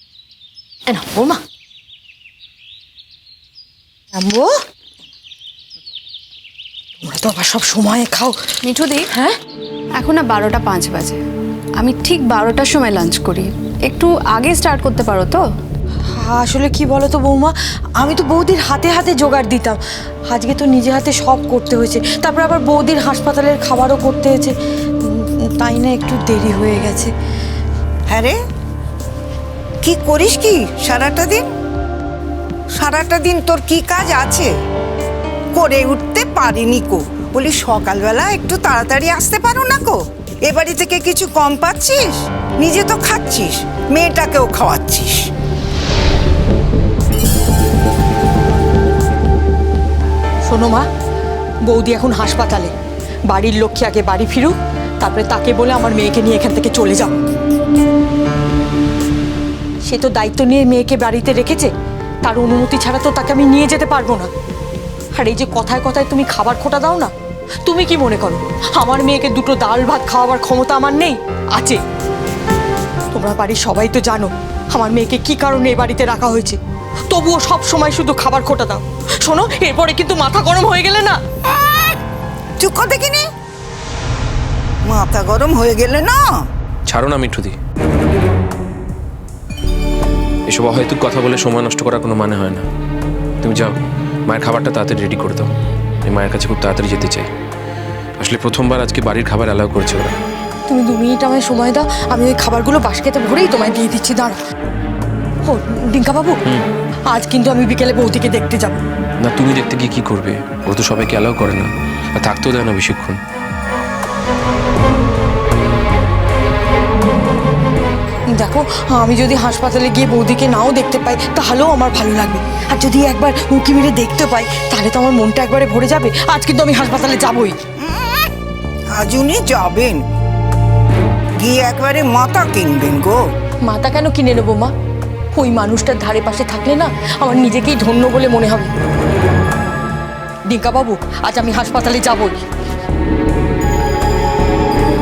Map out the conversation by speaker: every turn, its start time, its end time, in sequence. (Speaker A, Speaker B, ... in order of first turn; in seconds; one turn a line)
Speaker A: 0.9-1.4
Speaker A: 4.1-4.5
Speaker A: 7.0-8.4
Speaker B: 8.6-9.1
Speaker A: 9.1-9.4
Speaker B: 9.9-11.2
Speaker B: 11.8-15.5
Speaker A: 16.1-19.8
Speaker A: 20.3-24.5
Speaker A: 25.1-27.1
Speaker C: 29.9-31.4
Speaker C: 32.8-34.5
Speaker C: 35.6-40.0
Speaker C: 40.5-45.2
Speaker A: 50.5-50.9
Speaker A: 51.7-52.7
Speaker A: 53.3-57.2
Speaker A: 59.8-61.7
Speaker A: 62.2-64.3
Speaker A: 65.1-67.1
Speaker A: 67.7-71.8
Speaker A: 73.1-76.6
Speaker A: 77.1-81.2
Speaker C: 82.6-83.2
Speaker C: 84.9-86.2
Speaker D: 86.9-87.6
Speaker D: 90.5-92.7
Speaker D: 93.4-95.5
Speaker D: 96.0-97.3
Speaker D: 98.2-100.2
Speaker A: 100.7-104.4
Speaker A: 105.5-106.4
Speaker A: 107.1-108.8
Speaker D: 109.2-113.2
Speaker A: 118.3-127.6
Speaker C: 128.9-130.0
Speaker C: 131.4-133.2
Speaker A: 133.6-134.7
Speaker A: 135.3-138.7
Speaker A: 140.5-142.4